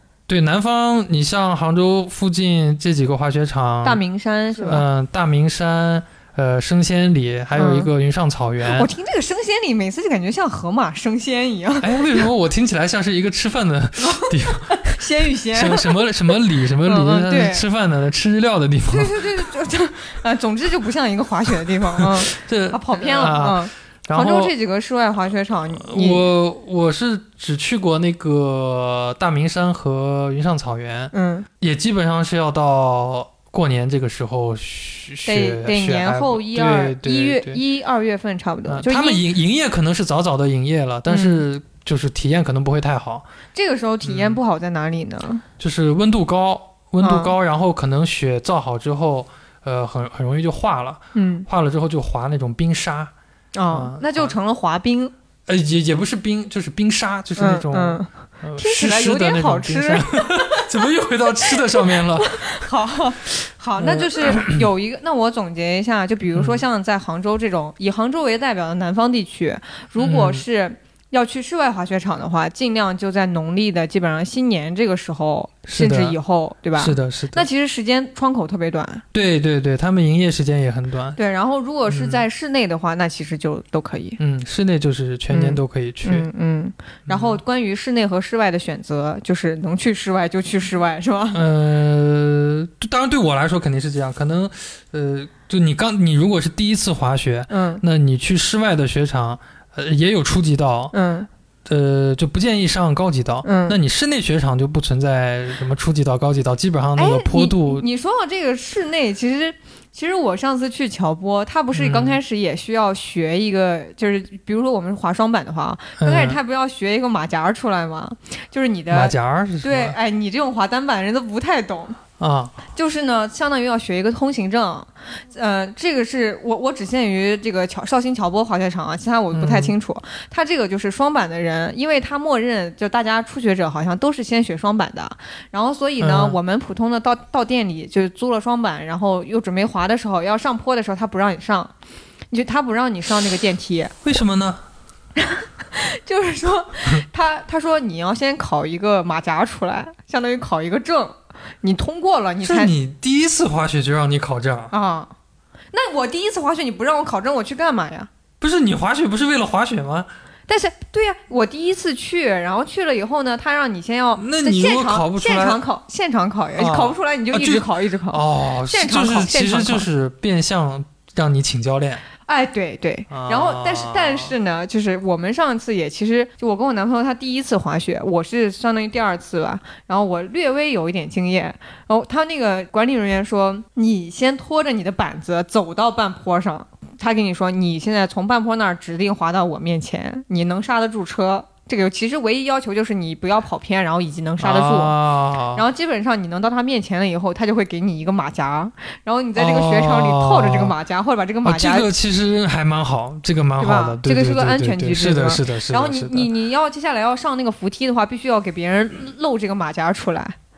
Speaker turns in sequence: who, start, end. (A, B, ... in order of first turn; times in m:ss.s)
0:00.3-0:04.0 A
0:03.8-0:04.8 B
0:04.5-0:08.9 A
0:07.5-0:07.9 B
0:08.6-0:12.3 B
0:11.8-0:19.3 A
0:14.0-0:16.3 B
0:16.8-0:17.6 B
0:18.9-0:26.3 B
0:22.0-0:24.5 A
0:25.7-0:37.6 A
0:31.1-0:31.5 B
0:35.2-0:39.2 B
0:38.7-0:43.2 A
0:41.1-0:41.4 B
0:43.5-0:45.4 B
0:44.0-0:44.4 A
0:45.6-0:53.1 A
0:47.0-0:47.3 B
0:51.1-0:51.5 B
0:53.5-0:55.1 B
0:53.7-0:54.4 A
0:55.5-1:02.6 A
0:57.4-1:00.6 B
1:01.8-1:19.0 B
1:03.8-1:04.6 A
1:06.3-1:06.6 A
1:10.0-1:10.4 A
1:15.7-1:16.2 A
1:16.8-1:17.4 A
1:19.1-1:21.2 A
1:21.2-1:24.2 B
1:21.9-1:22.2 A
1:24.2-1:26.3 A
1:25.3-1:31.4 B
1:27.1-1:27.4 A
1:31.3-1:40.9 A
1:37.5-1:37.8 B
1:40.9-1:41.3 B
1:41.6-1:47.8 A
1:43.4-1:43.8 B
1:47.0-2:02.0 B
1:51.7-1:52.2 A
1:56.0-1:56.4 A
1:58.9-2:00.0 A
2:02.2-2:02.6 A
2:02.7-2:21.7 B
2:09.3-2:09.7 A
2:16.0-2:16.4 A
2:22.3-2:23.9 B
2:24.0-2:24.6 A
2:25.2-2:32.7 B
2:32.4-2:34.7 A
2:34.7-2:35.1 B
2:35.7-2:38.1 B
2:38.4-2:40.1 A
2:40.5-2:49.9 B
2:44.2-2:45.6 A
2:46.6-2:52.0 A
2:52.2-3:15.0 B
2:53.1-2:54.3 A
3:14.4-3:15.6 A
3:15.5-3:21.9 B
3:19.4-3:20.7 A
3:21.4-3:26.3 A
3:23.6-3:30.4 B